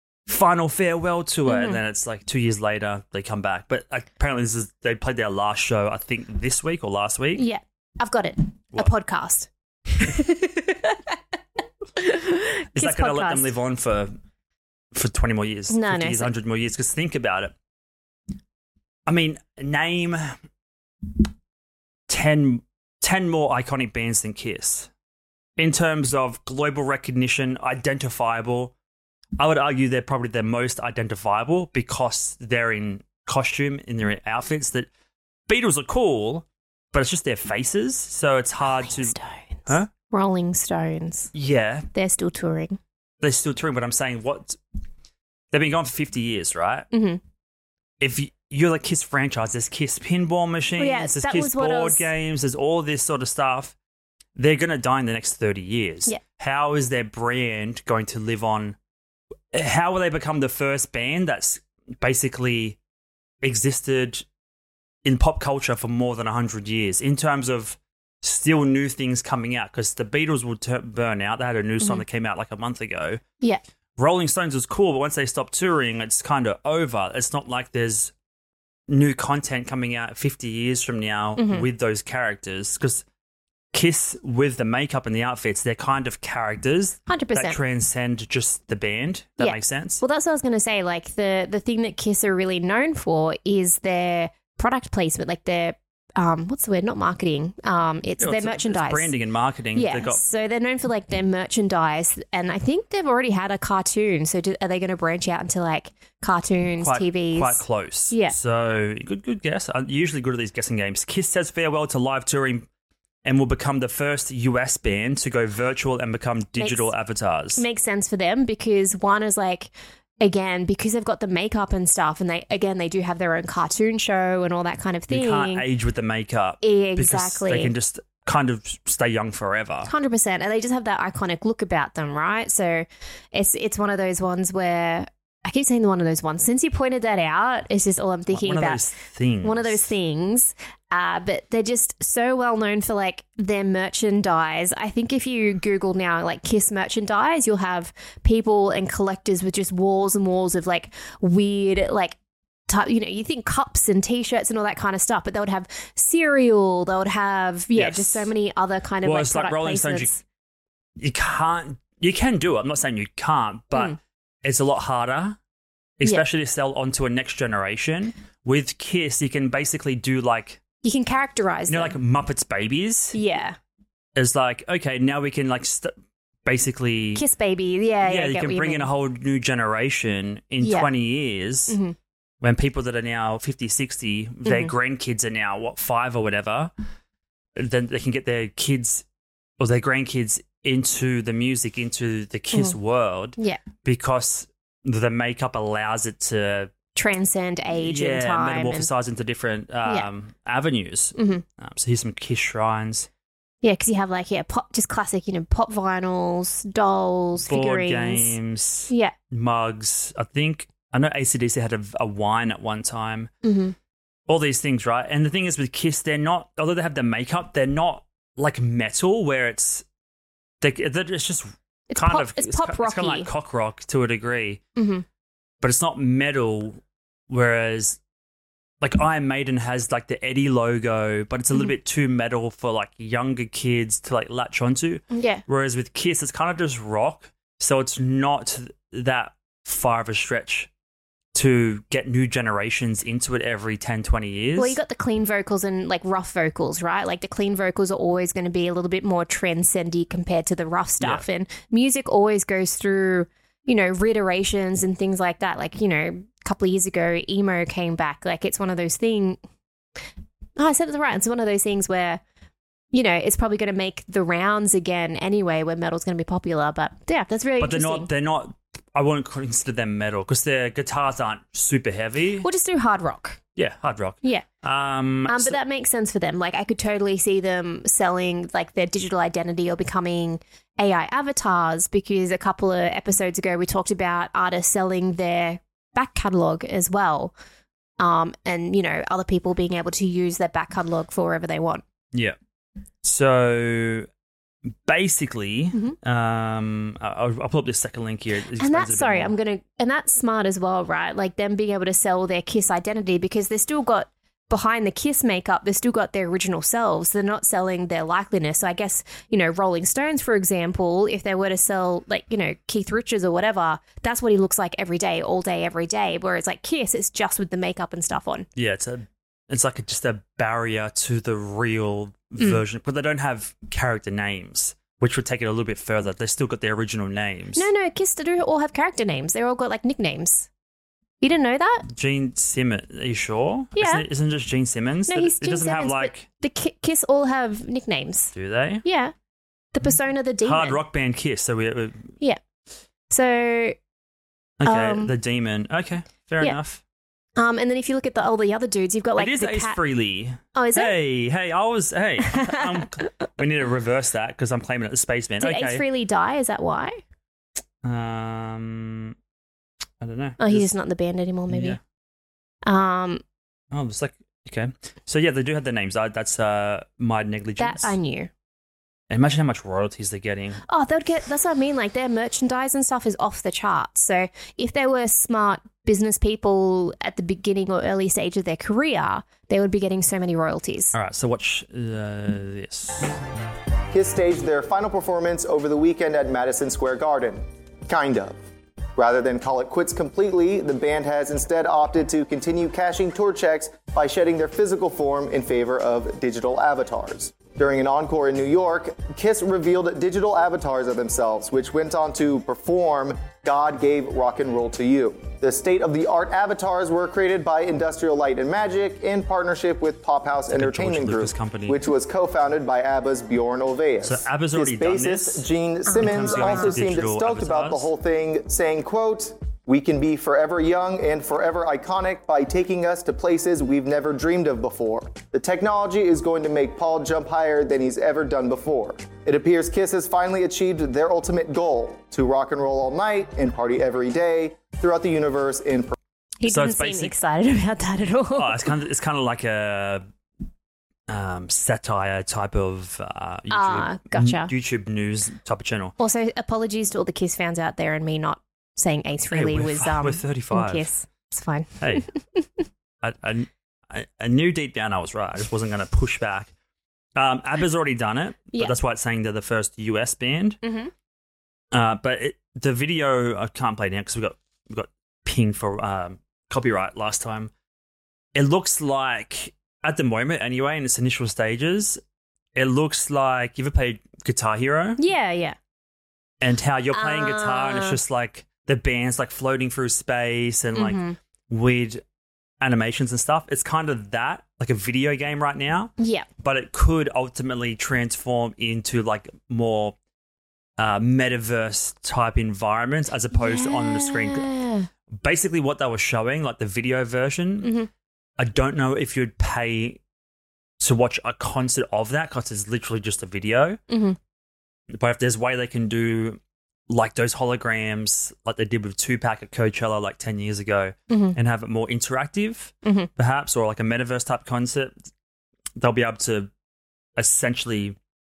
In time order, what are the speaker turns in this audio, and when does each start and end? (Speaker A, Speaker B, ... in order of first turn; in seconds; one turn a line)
Speaker A: 0.3-7.5
Speaker B: 1.5-1.8
Speaker B: 7.4-11.2
Speaker B: 12.0-13.5
Speaker A: 12.8-14.2
Speaker A: 14.9-17.5
Speaker B: 15.7-16.3
Speaker A: 19.1-20.4
Speaker A: 22.1-24.9
Speaker A: 25.6-28.7
Speaker A: 29.4-34.9
Speaker A: 35.5-39.2
Speaker B: 38.7-41.3
Speaker A: 41.3-41.9
Speaker B: 41.9-42.8
Speaker A: 43.2-44.6
Speaker A: 45.5-46.9
Speaker B: 46.9-47.2
Speaker A: 48.0-53.7
Speaker B: 50.8-52.1
Speaker A: 54.4-58.8
Speaker A: 59.5-62.8
Speaker A: 63.4-64.2
Speaker A: 65.0-73.2
Speaker A: 74.0-78.1
Speaker A: 78.9-83.0
Speaker B: 81.4-81.7
Speaker A: 83.7-90.0
Speaker B: 87.1-87.6
Speaker B: 89.4-99.1
Speaker A: 98.2-100.2
Speaker B: 99.8-108.4
Speaker A: 106.8-112.7
Speaker A: 113.2-117.6
Speaker B: 116.6-116.9
Speaker B: 117.6-125.7
Speaker A: 125.1-129.9
Speaker B: 126.6-127.7
Speaker B: 129.9-138.8
Speaker A: 138.3-139.9
Speaker B: 139.4-152.2
Speaker B: 152.7-160.2
Speaker A: 157.7-158.3
Speaker A: 159.0-160.1
Speaker A: 161.0-165.4
Speaker A: 166.0-170.6
Speaker B: 170.8-172.0
Speaker A: 171.7-173.2
Speaker B: 173.1-173.6
Speaker A: 174.2-175.9
Speaker A: 176.4-177.2
Speaker B: 177.2-178.9
Speaker A: 178.0-181.8
Speaker B: 180.6-180.9
Speaker B: 181.7-182.0
Speaker A: 182.4-186.7
Speaker B: 184.4-184.7
Speaker A: 187.6-189.1
Speaker A: 189.6-196.7
Speaker B: 196.9-198.9
Speaker A: 197.7-203.1
Speaker B: 201.2-201.4
Speaker B: 203.6-208.4
Speaker A: 207.5-213.3
Speaker B: 208.9-209.1
Speaker B: 213.4-213.8
Speaker A: 214.3-219.8
Speaker A: 220.6-224.6
Speaker B: 221.9-223.3
Speaker B: 224.8-225.0
Speaker A: 225.6-228.0
Speaker A: 228.8-240.7
Speaker B: 235.1-235.4
Speaker A: 241.3-244.8
Speaker B: 244.6-259.4
Speaker B: 260.6-262.2
Speaker B: 262.9-268.1
Speaker A: 267.6-272.5
Speaker B: 272.4-273.4
Speaker A: 273.6-275.6
Speaker B: 275.3-287.3
Speaker B: 288.0-291.8
Speaker A: 293.0-294.1
Speaker A: 294.9-299.3
Speaker B: 298.6-318.5
Speaker A: 318.6-327.7
Speaker B: 327.6-330.5
Speaker B: 331.2-331.9
Speaker A: 331.9-336.2
Speaker B: 333.8-334.1
Speaker B: 335.1-338.3
Speaker A: 338.3-338.8
Speaker B: 338.8-339.1
Speaker B: 339.7-340.8
Speaker A: 340.4-342.1
Speaker B: 343.1-343.8
Speaker A: 344.6-346.8
Speaker B: 344.6-345.1
Speaker B: 347.4-349.8
Speaker A: 349.2-355.8
Speaker B: 350.6-350.9
Speaker B: 352.3-353.1
Speaker B: 355.4-357.0
Speaker A: 357.8-359.1
Speaker A: 360.0-360.7
Speaker B: 360.4-361.8
Speaker A: 361.5-361.8
Speaker B: 362.7-363.2
Speaker A: 363.7-368.0
Speaker B: 367.6-368.3
Speaker A: 369.1-370.6
Speaker B: 370.7-380.9
Speaker A: 380.9-383.2
Speaker C: 383.9-388.4
Speaker C: 389.0-435.9
Speaker A: 410.5-411.8
Speaker A: 414.0-415.5
Speaker B: 415.9-416.8
Speaker A: 416.0-417.9
Speaker B: 436.4-438.7
Speaker A: 436.5-437.1
Speaker A: 438.4-440.0
Speaker A: 441.1-445.9
Speaker B: 443.5-444.5
Speaker B: 446.0-452.6
Speaker A: 449.3-450.9
Speaker A: 451.8-452.1
Speaker A: 453.0-456.5
Speaker A: 457.2-460.6
Speaker B: 460.6-460.9
Speaker A: 461.7-467.5
Speaker A: 468.4-472.0
Speaker A: 472.6-475.0
Speaker B: 475.0-475.6
Speaker A: 476.4-482.0
Speaker B: 476.9-478.0
Speaker B: 480.8-481.2
Speaker A: 482.6-489.9
Speaker B: 486.0-486.3
Speaker A: 490.8-494.5
Speaker B: 493.4-494.9
Speaker A: 495.1-497.7
Speaker B: 497.6-497.9
Speaker A: 498.4-500.0
Speaker A: 500.8-503.8
Speaker B: 503.9-504.2
Speaker A: 504.9-514.9
Speaker B: 511.1-511.4
Speaker B: 512.8-513.1
Speaker A: 515.8-516.5
Speaker A: 517.2-518.0